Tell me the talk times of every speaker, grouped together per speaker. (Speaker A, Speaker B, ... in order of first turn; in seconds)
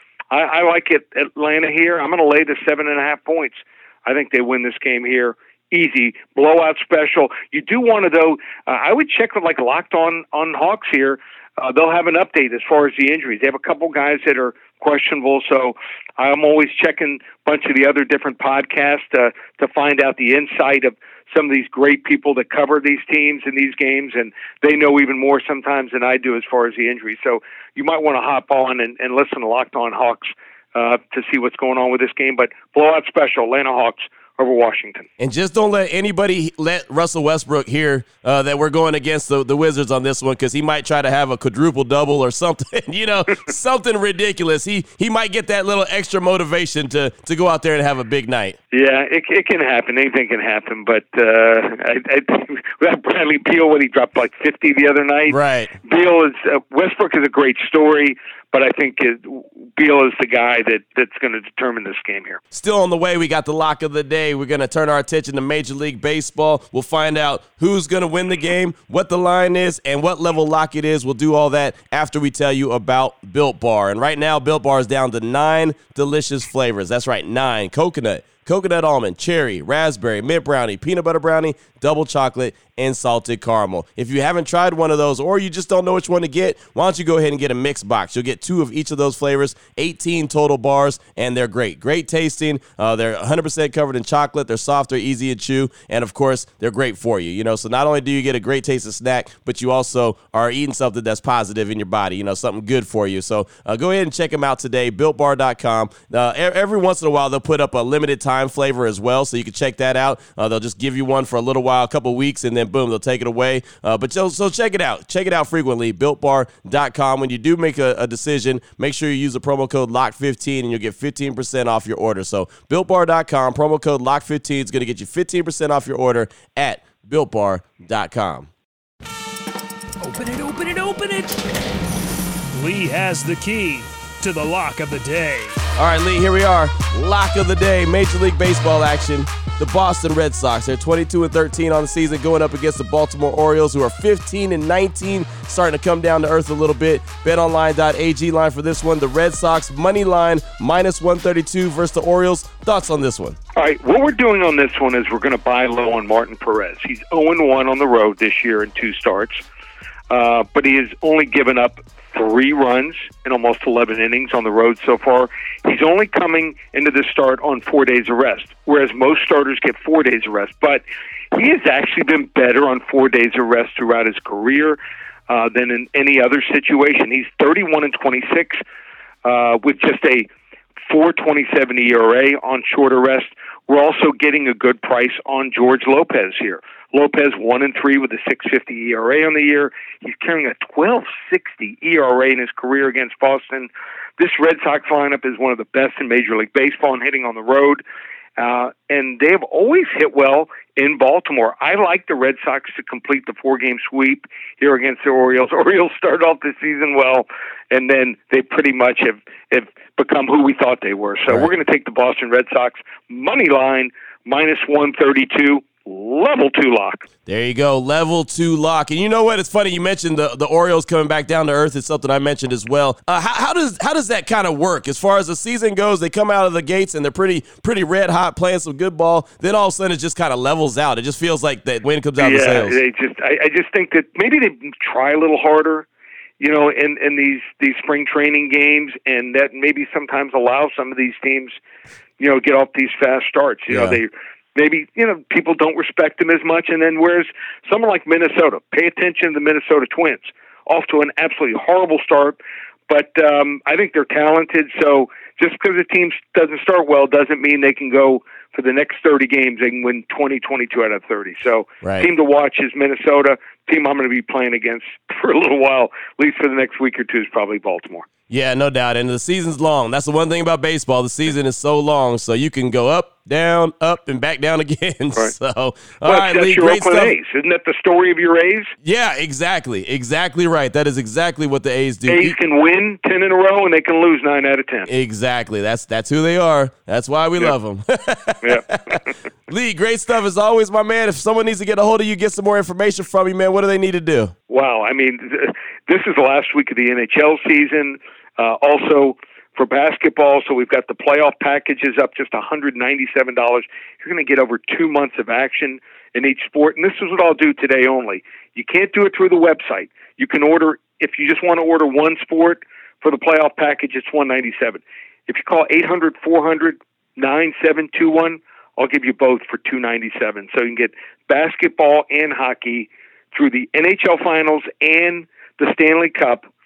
Speaker A: 0.3-35.1, 48.7-62.4, 153.6-159.4, 160.1-170.8, 171.3-178.6, 179.2-180.3, 180.9-197.8, 198.4-217.1, 232.2-235.9, 236.4-241.6, 242.2-268.1, 276.0-278.7, 282.1-284.9, 288.4-289.1, 294.5-326.4
Speaker B: 35.2-48.6, 55.3-55.7, 62.5-128.5, 135.8-153.4, 211.3-211.5, 217.3-232.8, 243.7-244.0, 261.8-262.1, 268.3-277.1, 278.8-282.4, 284.9-289.0, 289.5-294.3
Speaker C: 130.0-131.3, 132.5-135.6